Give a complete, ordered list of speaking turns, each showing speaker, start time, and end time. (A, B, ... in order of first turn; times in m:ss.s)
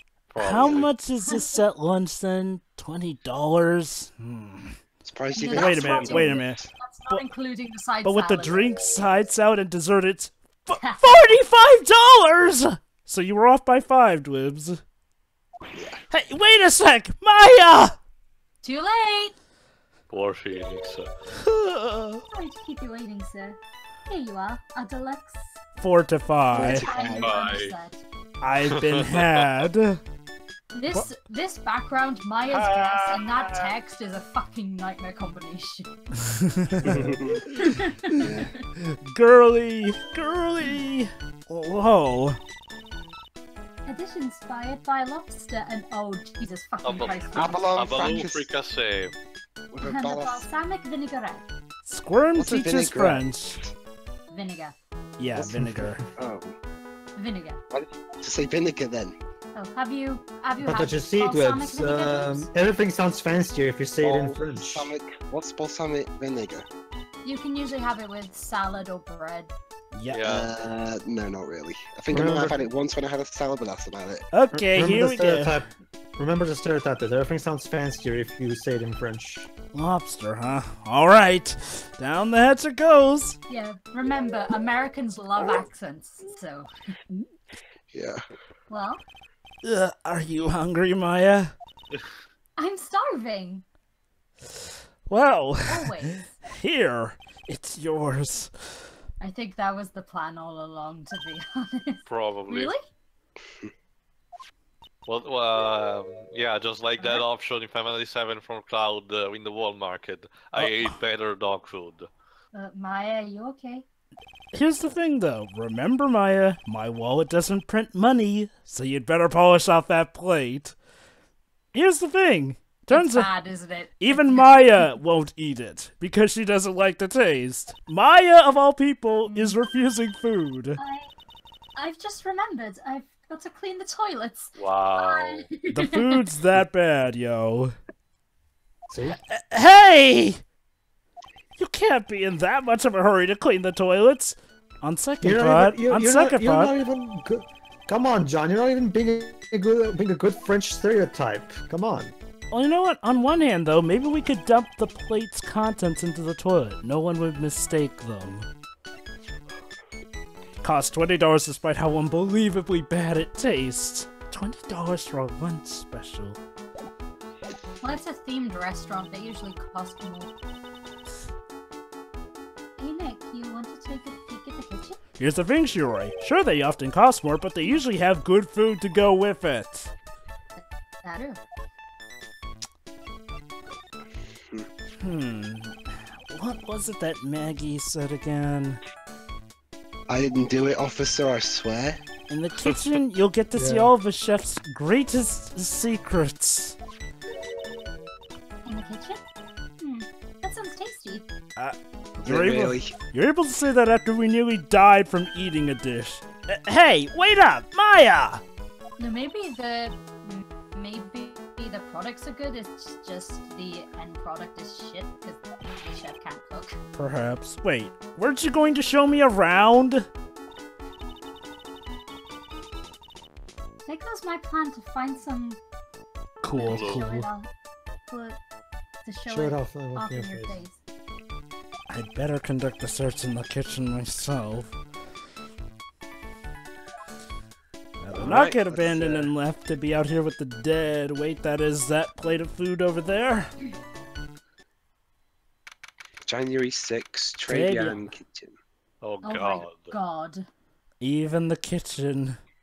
0:00.3-0:00.9 A
0:00.4-0:04.8 B
0:05.0-0:06.7 C
0:05.3-0:08.9 D
0:05.5-0:06.6 B
0:08.0-0:14.8 B
0:10.8-0:11.2 D
0:15.7-0:16.0 C
0:16.1-0:18.0 B
0:18.6-0:19.4 D
0:20.1-0:21.1 A
0:21.4-0:22.2 B
0:22.3-0:25.6 D
0:25.8-0:26.9 B
0:26.5-0:27.4 C
0:26.6-0:28.0 D
0:27.2-0:27.8 A
0:28.4-0:30.0 B
0:28.7-0:29.4 A
0:30.7-0:35.9 D
0:32.5-0:33.8 A
0:36.2-0:37.2 B
0:36.8-0:37.5 C
0:37.5-0:38.6 D
0:38.2-0:38.5 C
0:38.8-0:42.4 B
0:43.9-0:48.3 D
0:46.8-0:47.2 A
0:47.3-0:48.5 C
0:47.7-0:49.1 A
0:49.7-0:50.5 C
0:49.8-0:51.5 D
0:51.8-0:53.7 B
0:52.4-0:53.7 C
0:54.3-0:54.8 D
0:55.2-0:56.0 B
0:55.4-0:56.1 E
0:56.2-0:56.6 C
0:57.2-0:57.6 D
0:57.7-0:59.2 C
0:59.6-1:02.5 D
1:00.6-1:04.9 E
1:04.0-1:06.7 C
1:07.2-1:09.5 D
1:09.9-1:10.2 B
1:10.1-1:10.5 A
1:10.2-1:14.3 C
1:12.1-1:12.7 E
1:14.3-1:15.6 B
1:14.5-1:19.5 E
1:19.7-1:23.4 B
1:23.5-1:26.7 D
1:27.9-1:28.2 C
1:28.7-1:29.0 D
1:29.6-1:31.5 B
1:32.6-1:33.6 D
1:34.6-1:38.9 B
1:35.6-1:36.3 D
1:39.2-1:42.8 D
1:42.1-1:42.7 A
1:45.1-1:52.1 A
1:47.0-1:47.2 D
1:50.6-1:51.0 B
1:52.5-1:53.8 D
1:54.5-2:00.8 B
2:01.7-2:03.3 B
2:02.9-2:04.8 D
2:04.0-2:10.8 B
2:09.3-2:09.6 D
2:10.8-2:11.1 D
2:11.8-2:16.2 D
2:14.6-2:15.5 A
2:15.7-2:17.7 B
2:18.9-2:19.2 E
2:19.3-2:20.4 B
2:21.6-2:26.8 B
2:25.2-2:32.1 E
2:32.5-2:38.5 B
2:40.6-2:46.4 B
2:47.8-2:50.3 D
2:52.8-2:55.0 D
2:55.2-2:59.9 B
3:00.6-3:01.4 D
3:05.0-3:08.8 B
3:10.1-3:12.0 C
3:12.3-3:16.8 B
3:13.5-3:13.9 E
3:18.6-3:19.2 D
3:19.8-3:21.3 D
3:21.6-3:28.4 B
3:22.2-3:23.0 C
3:29.0-3:36.8 D
3:36.9-3:40.1 B
3:43.9-3:45.6 D
3:46.4-3:47.3 B
3:46.5-3:47.5 D
3:46.6-3:47.0 A
3:48.1-3:48.4 D
3:49.0-3:50.8 D
3:49.3-3:50.6 E
3:51.9-3:54.8 B
3:58.0-4:03.5 B
3:58.1-3:59.3 C
4:06.3-4:08.6 C
4:07.5-4:08.1 B
4:09.0-4:10.0 A
4:09.2-4:10.5 D
4:11.0-4:12.4 B